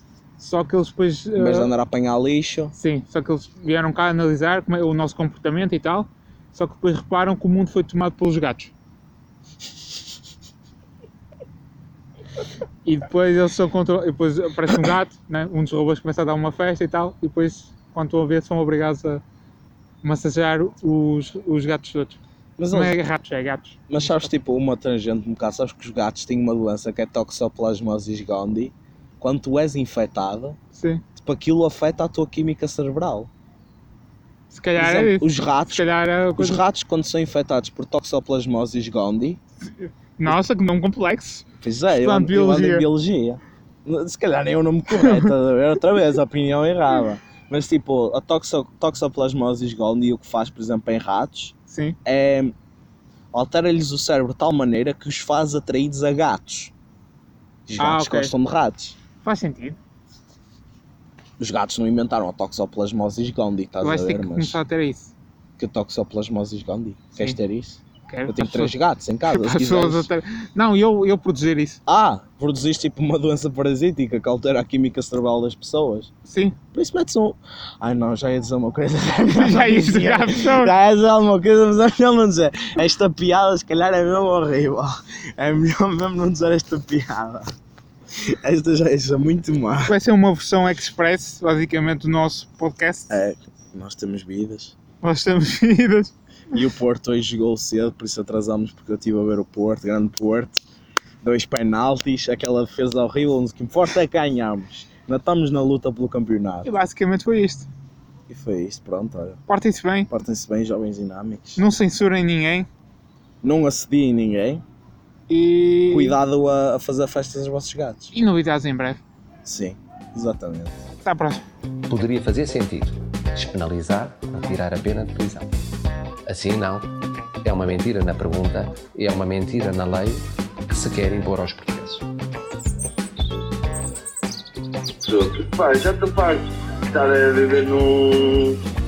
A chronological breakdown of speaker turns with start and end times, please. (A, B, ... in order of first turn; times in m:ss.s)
0:00.4-0:01.7 A
0:01.3-0:02.7 B
0:02.7-0:08.7 A
0:12.8-0:19.2 A
0:20.0-0:22.2 A
0:22.6-0:23.0 B
0:22.7-0:24.3 A
0:23.9-0:30.6 B
0:30.7-0:31.0 A
0:31.2-0:33.3 B
0:34.5-0:36.6 A
0:34.8-0:35.8 B
0:36.4-0:39.4 B
0:39.8-0:42.9 A
0:41.6-0:52.5 B
0:45.0-0:45.2 A
0:51.7-0:52.0 A
0:53.3-0:56.7 B
0:57.7-0:59.0 B
0:57.8-0:58.3 A
0:59.2-0:59.8 A
1:01.4-1:04.6 B
1:03.8-1:05.1 A
1:05.6-1:10.1 B
1:08.1-1:08.8 A
1:09.3-1:11.8 A
1:11.8-1:16.1 B
1:16.3-1:16.6 A
1:16.7-1:27.5 B
1:19.3-1:20.7 A
1:28.1-1:30.0 B
1:29.9-1:33.1 A
1:33.1-1:34.7 B
1:35.0-1:36.1 A
1:36.5-1:40.6 B
1:41.2-1:46.7 B
1:46.6-1:47.7 A
1:48.3-1:49.4 B
1:49.5-1:50.1 A
1:50.1-1:51.6 B
1:51.6-1:52.7 A
1:53.4-1:54.6 B
1:55.3-1:56.2 A
1:55.9-1:58.1 B
1:58.1-1:59.0 A
1:59.4-2:00.8 B
2:01.0-2:01.4 A
2:01.9-2:05.5 C
2:06.3-2:06.9 C
2:07.4-2:12.1 C
2:15.0-2:18.6 D